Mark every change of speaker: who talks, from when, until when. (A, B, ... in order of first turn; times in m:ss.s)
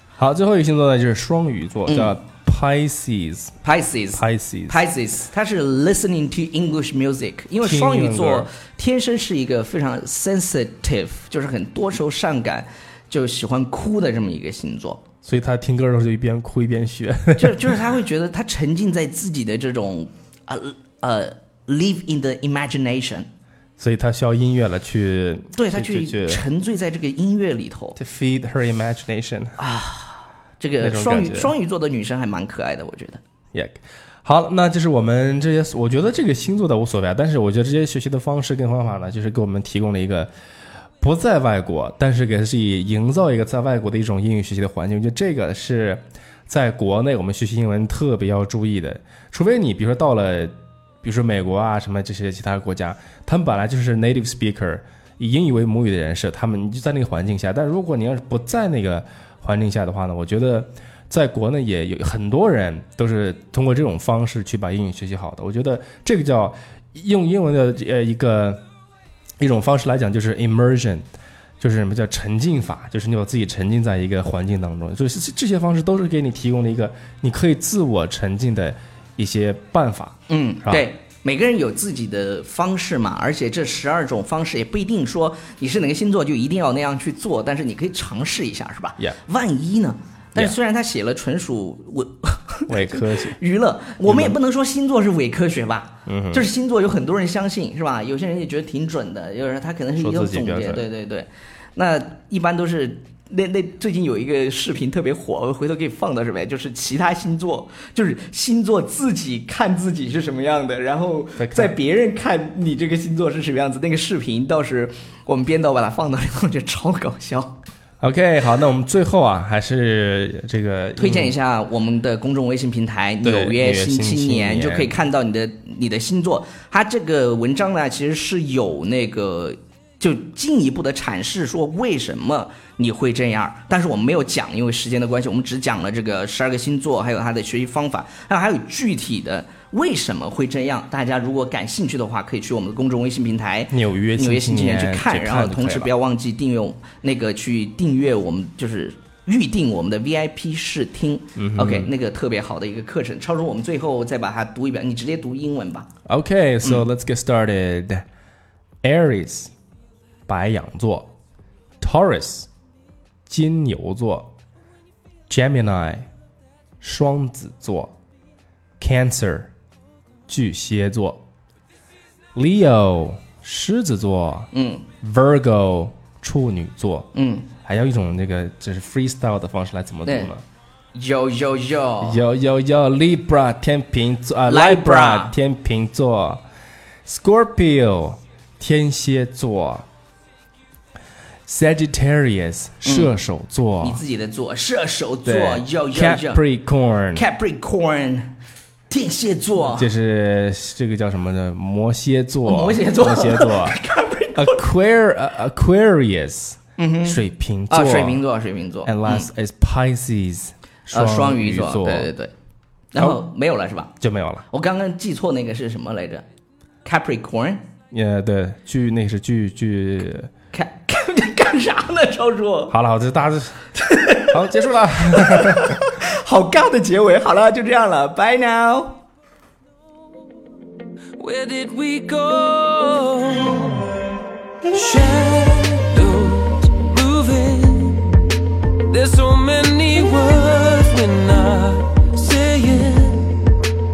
0:00.2-0:03.5 A
0:01.9-0:02.1 B
0:03.6-0:15.0 B
0:04.1-0:04.8 A
0:07.6-0:08.5 A
0:15.2-0:17.8 A
0:17.4-0:23.3 B
0:23.8-0:26.4 A
0:25.5-0:28.0 B
0:28.0-0:29.6 A
0:29.6-0:33.2 B
0:30.8-0:31.5 A
0:33.5-0:40.3 A
0:41.0-1:08.6 A
1:09.4-1:11.0 A
1:11.6-1:20.9 A
1:20.3-1:57.6 B
1:32.7-1:33.4 A
1:34.0-1:34.4 A
1:36.1-1:36.5 A
1:40.0-1:40.8 A
1:51.4-1:51.7 A
1:58.0-2:01.4 A
2:01.0-2:35.9 B
2:03.2-2:05.0 A
2:23.7-2:25.9 A
2:31.4-2:31.9 A
2:36.0-2:38.0 A
2:38.8-2:39.5 A
2:40.3-2:41.1 A
2:41.8-2:42.5 A
2:43.3-2:44.3 A
2:45.3-2:46.1 A
2:46.8-2:47.9 A
2:48.8-2:49.5 A
2:50.3-2:51.2 A
2:52.3-2:54.5 A
2:54.5-2:54.9 B
2:55.0-2:57.1 A
2:57.1-2:57.5 B
2:57.6-3:00.4 A
3:00.0-3:00.3 B
3:00.9-3:02.2 B
3:02.0-3:06.4 A
3:04.5-3:05.4 B
3:07.0-3:09.8 A
3:11.4-3:14.0 A
3:12.8-3:13.1 B
3:13.8-3:16.4 B
3:15.2-3:17.2 A
3:17.1-3:18.3 B
3:18.9-3:19.9 B
3:19.7-3:23.8 A
3:22.4-3:24.6 B
3:24.3-3:28.2 A
3:26.8-3:29.3 B
3:28.8-3:32.1 A
3:30.9-3:32.3 B
3:32.9-3:33.9 B
3:33.0-3:33.2 A
3:34.0-3:34.4 A
3:34.5-3:36.2 B
3:36.8-3:37.6 B
3:37.9-3:40.3 A
3:40.5-3:42.8 B
3:42.7-3:43.6 A
3:43.7-3:44.5 B
3:44.3-3:45.8 A
3:45.1-3:49.0 B
3:51.2-3:53.9 C
3:54.7-3:58.2 C
3:58.8-4:03.5 C